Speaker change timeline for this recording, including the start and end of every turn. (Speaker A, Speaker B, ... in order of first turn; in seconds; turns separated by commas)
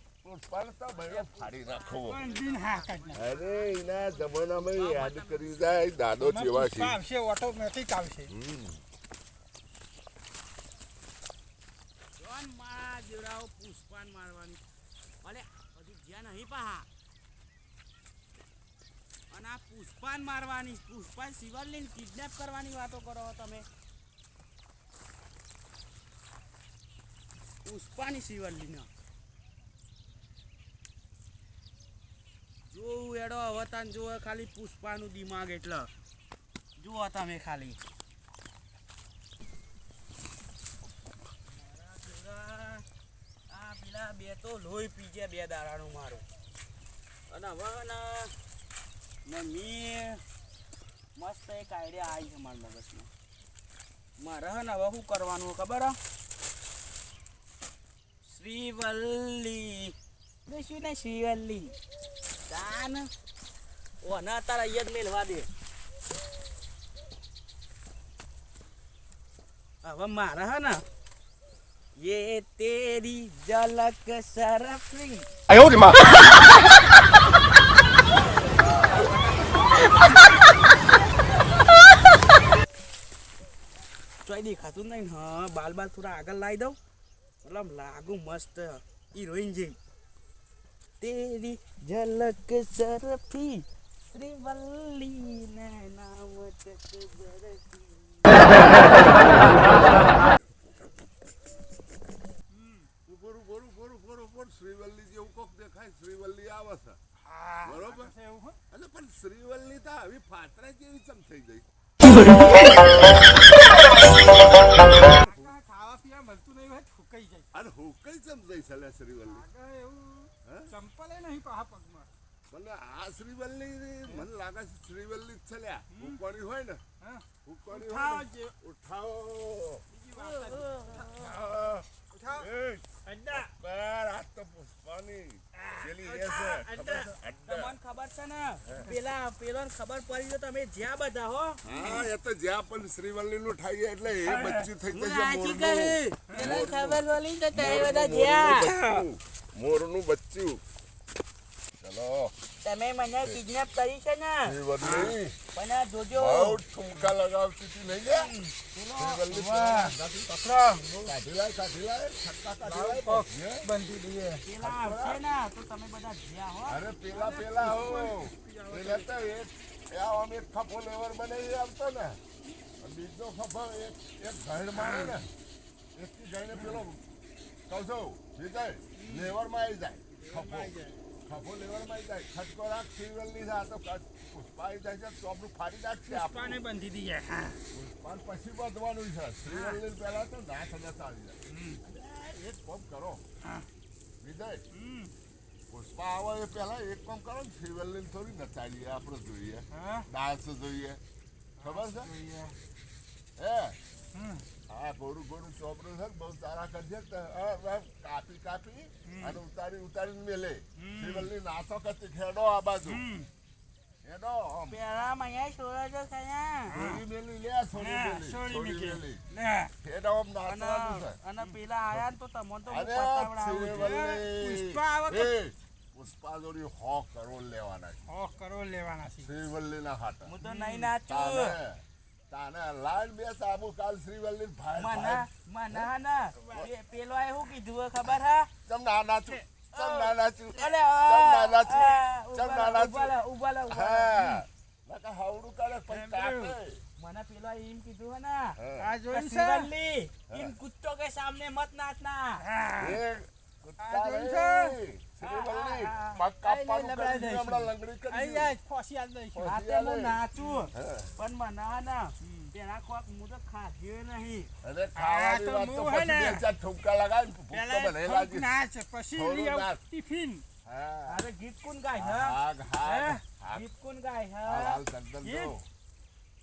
Speaker A: 0.2-2.2, Speaker B: 0.9-6.0, Speaker C: 2.0-3.3, Speaker A: 3.1-7.0, Speaker C: 6.2-8.3, Speaker A: 8.3-8.8, Speaker B: 12.2-14.6, Speaker B: 15.2-16.9, Speaker B: 19.3-23.7, Speaker B: 27.6-28.9, Speaker B: 32.7-35.9, Speaker B: 36.8-37.8, Speaker B: 41.5-42.9, Speaker B: 43.5-46.2, Speaker B: 47.3-48.4, Speaker B: 49.2-50.2, Speaker B: 51.2-53.1, Speaker B: 54.2-56.0, Speaker B: 58.2-59.9, Speaker B: 60.5-61.8, Speaker B: 62.5-63.1, Speaker B: 64.0-65.5, Speaker B: 69.8-70.8, Speaker B: 72.0-75.3, Speaker B: 78.8-80.1, Speaker B: 84.2-86.8, Speaker B: 87.4-89.8, Speaker B: 91.0-99.6, Speaker A: 99.9-100.5, Speaker C: 102.5-102.9, Speaker A: 103.1-107.0, Speaker C: 107.2-108.6, Speaker A: 107.6-108.1, Speaker A: 108.7-111.7, Speaker C: 115.0-117.5, Speaker A: 115.2-115.5, Speaker A: 117.5-119.5, Speaker C: 119.2-122.1, Speaker A: 120.4-120.7, Speaker A: 122.5-126.8, Speaker C: 125.9-126.2, Speaker C: 127.0-128.6, Speaker A: 127.4-129.9, Speaker C: 129.9-131.1, Speaker B: 130.1-131.4, Speaker A: 131.1-132.8, Speaker C: 132.1-132.5, Speaker C: 133.1-133.5, Speaker A: 133.4-137.8, Speaker C: 135.6-137.2, Speaker B: 137.4-142.1, Speaker A: 138.7-138.9, Speaker A: 141.6-150.6, Speaker C: 144.1-144.7, Speaker B: 144.9-148.7, Speaker C: 146.3-146.6, Speaker C: 148.8-149.1, Speaker A: 151.8-152.3, Speaker B: 152.6-154.6, Speaker A: 154.4-155.4, Speaker C: 154.8-155.1, Speaker B: 155.5-156.6, Speaker A: 156.1-158.3, Speaker B: 158.1-159.4, Speaker A: 158.9-160.3, Speaker C: 159.3-161.1, Speaker A: 161.0-163.7, Speaker C: 162.6-164.4, Speaker B: 164.4-166.8, Speaker A: 164.6-165.2, Speaker A: 166.7-172.2, Speaker C: 167.1-169.1, Speaker A: 172.8-175.3, Speaker C: 174.7-175.2, Speaker A: 175.9-177.0, Speaker C: 176.5-176.8, Speaker A: 177.7-180.7, Speaker C: 179.0-179.4, Speaker C: 180.2-181.0, Speaker A: 181.2-186.6, Speaker C: 186.1-187.6, Speaker A: 187.7-193.2, Speaker C: 189.4-189.8, Speaker C: 191.5-191.8, Speaker A: 194.2-194.6, Speaker C: 194.7-195.1, Speaker A: 195.7-201.0, Speaker C: 199.7-200.1, Speaker C: 201.6-202.6, Speaker A: 201.6-202.1, Speaker A: 203.4-203.8, Speaker C: 204.1-204.5, Speaker A: 204.7-213.1, Speaker C: 209.0-209.4, Speaker C: 210.8-211.3, Speaker C: 212.8-213.3, Speaker A: 214.0-214.8, Speaker B: 214.7-216.8, Speaker C: 216.7-217.0, Speaker A: 216.7-219.2, Speaker C: 217.7-219.7, Speaker A: 219.8-221.2, Speaker B: 220.4-224.0, Speaker A: 222.7-228.0, Speaker C: 223.7-225.3, Speaker C: 228.1-229.3, Speaker A: 229.2-230.3, Speaker B: 230.2-231.6, Speaker C: 230.4-230.9, Speaker A: 231.1-236.7, Speaker B: 234.8-238.5, Speaker A: 238.6-243.2, Speaker B: 239.7-244.3, Speaker A: 243.7-246.8, Speaker C: 245.9-246.6, Speaker B: 247.0-248.6, Speaker A: 248.6-248.9, Speaker C: 248.8-249.7, Speaker B: 249.1-252.4, Speaker A: 250.3-250.6, Speaker C: 252.4-253.0, Speaker A: 252.8-258.6, Speaker C: 253.8-254.8, Speaker B: 255.2-256.2, Speaker C: 256.4-259.5, Speaker A: 259.3-261.1, Speaker B: 259.4-264.5, Speaker C: 260.4-260.7, Speaker C: 262.2-262.5, Speaker A: 264.6-268.5, Speaker C: 264.9-266.4, Speaker C: 267.5-270.4, Speaker A: 269.1-269.8, Speaker A: 270.6-271.3, Speaker B: 271.1-272.4, Speaker A: 272.0-273.6, Speaker C: 272.8-273.2, Speaker B: 273.5-274.8, Speaker A: 274.4-275.6, Speaker C: 275.2-275.5